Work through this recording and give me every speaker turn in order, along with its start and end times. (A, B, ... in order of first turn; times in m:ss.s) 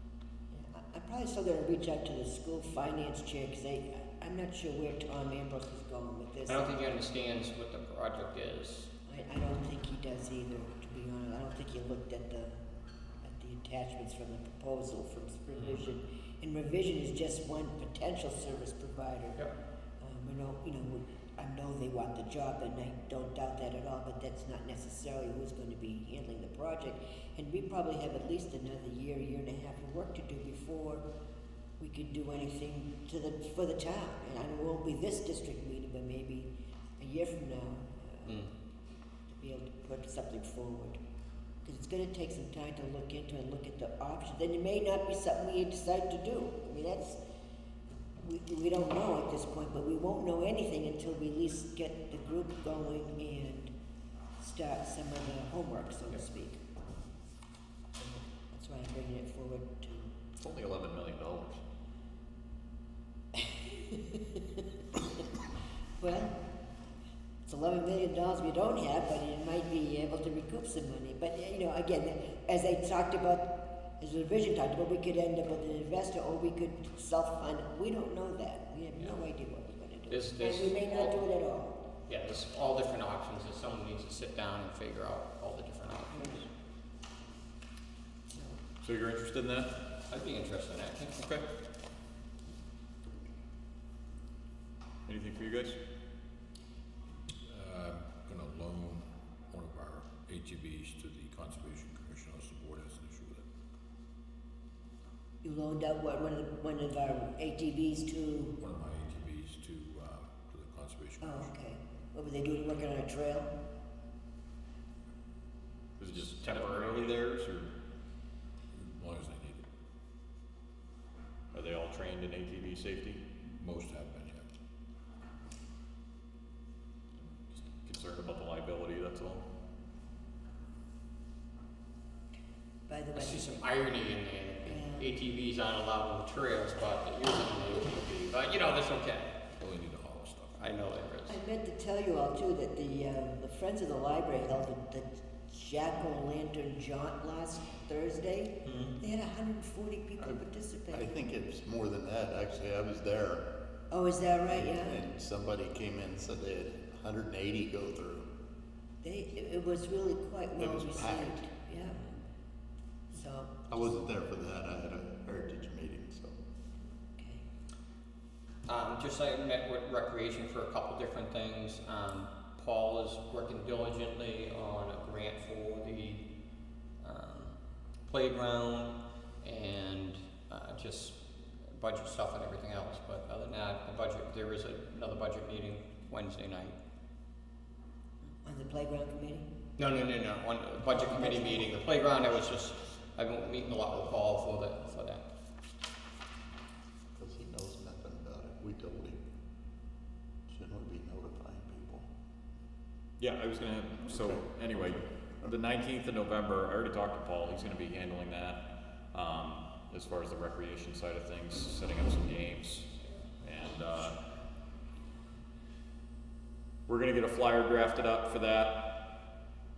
0:00.5-0:06.7 A
0:06.5-0:08.9 B
0:09.1-0:12.6 A
0:13.2-0:19.4 A
0:20.0-0:31.0 A
0:31.8-0:38.4 A
0:38.3-0:38.5 B
0:39.3-0:41.0 A
0:41.6-0:47.2 A
0:48.2-0:53.7 A
0:54.4-0:56.6 A
0:58.0-1:00.2 A
1:00.4-1:01.6 C
1:03.4-1:05.0 A
1:06.0-1:06.4 A
1:07.5-1:21.8 A
1:20.1-1:21.2 B
1:22.1-1:26.5 B
1:28.3-1:28.6 A
1:28.8-1:29.7 C
1:30.1-1:31.4 B
1:35.1-1:35.8 C
1:37.4-1:43.5 D
1:45.4-1:48.6 A
1:48.6-1:51.5 D
1:51.2-1:53.5 A
1:56.0-1:57.7 C
1:56.3-1:57.2 B
1:58.8-1:59.7 D
2:01.5-2:03.2 C
2:03.6-2:04.5 D
2:07.5-2:09.4 C
2:12.9-2:13.4 A
2:13.2-2:19.4 B
2:14.6-2:15.1 A
2:19.6-2:20.7 D
2:20.6-2:21.4 B
2:21.3-2:31.1 A
2:30.9-2:33.4 E
2:33.9-2:35.0 A
2:34.5-2:38.3 E
2:39.0-2:42.1 A
2:40.6-2:41.4 E
2:43.1-2:43.8 A
2:43.7-2:46.4 E
2:47.2-2:47.4 A
2:48.7-2:56.3 B
2:57.0-2:57.6 B
2:58.1-3:06.8 B
3:08.4-3:09.5 A
3:09.8-3:15.2 B
3:10.9-3:11.7 A
3:17.2-3:19.2 E
3:20.5-3:22.1 E
3:23.2-3:32.9 C
3:24.1-3:24.4 E
3:33.4-3:34.2 C
3:36.9-3:38.9 C